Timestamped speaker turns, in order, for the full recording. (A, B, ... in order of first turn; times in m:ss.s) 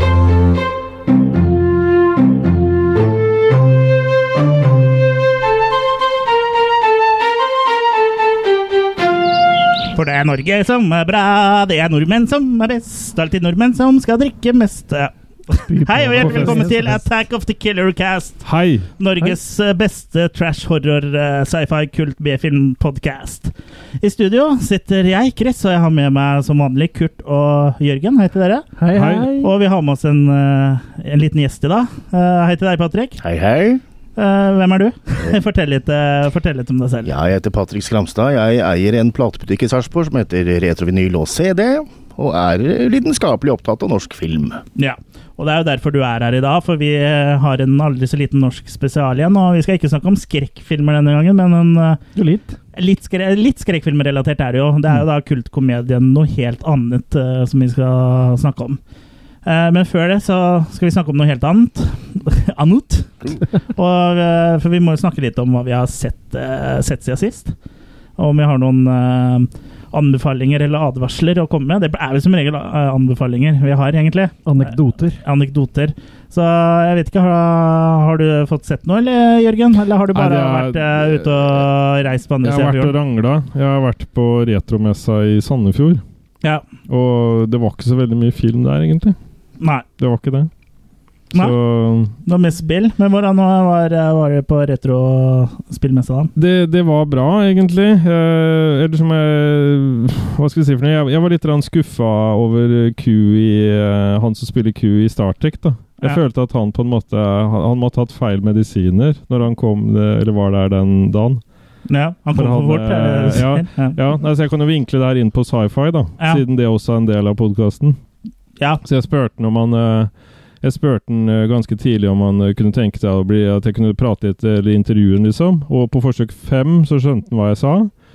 0:09.9-0:18.4 A
0:15.7-0:17.0 B
0:16.2-0:16.7 C
0:18.4-0:18.9 C
0:19.0-0:28.7 A
0:28.8-0:29.5 B
0:28.9-0:29.3 C
0:29.4-0:33.2 A
0:33.2-0:33.8 D
0:34.2-0:37.1 A
0:37.0-0:44.6 D
0:44.8-0:52.0 A
0:52.2-0:52.6 B
0:52.7-0:58.8 A
0:59.4-1:07.5 A
1:08.2-1:14.4 A
1:14.4-1:15.2 B
1:15.2-1:22.9 A
1:20.1-1:21.6 C
1:22.4-1:26.0 C
1:26.9-1:29.2 C
1:29.6-1:29.8 A
1:30.0-1:30.5 C
1:31.3-1:32.1 C
1:32.2-1:36.3 A
1:36.4-1:51.4 C
1:51.9-1:54.0 A
1:52.4-1:58.0 C
1:58.8-2:07.9 C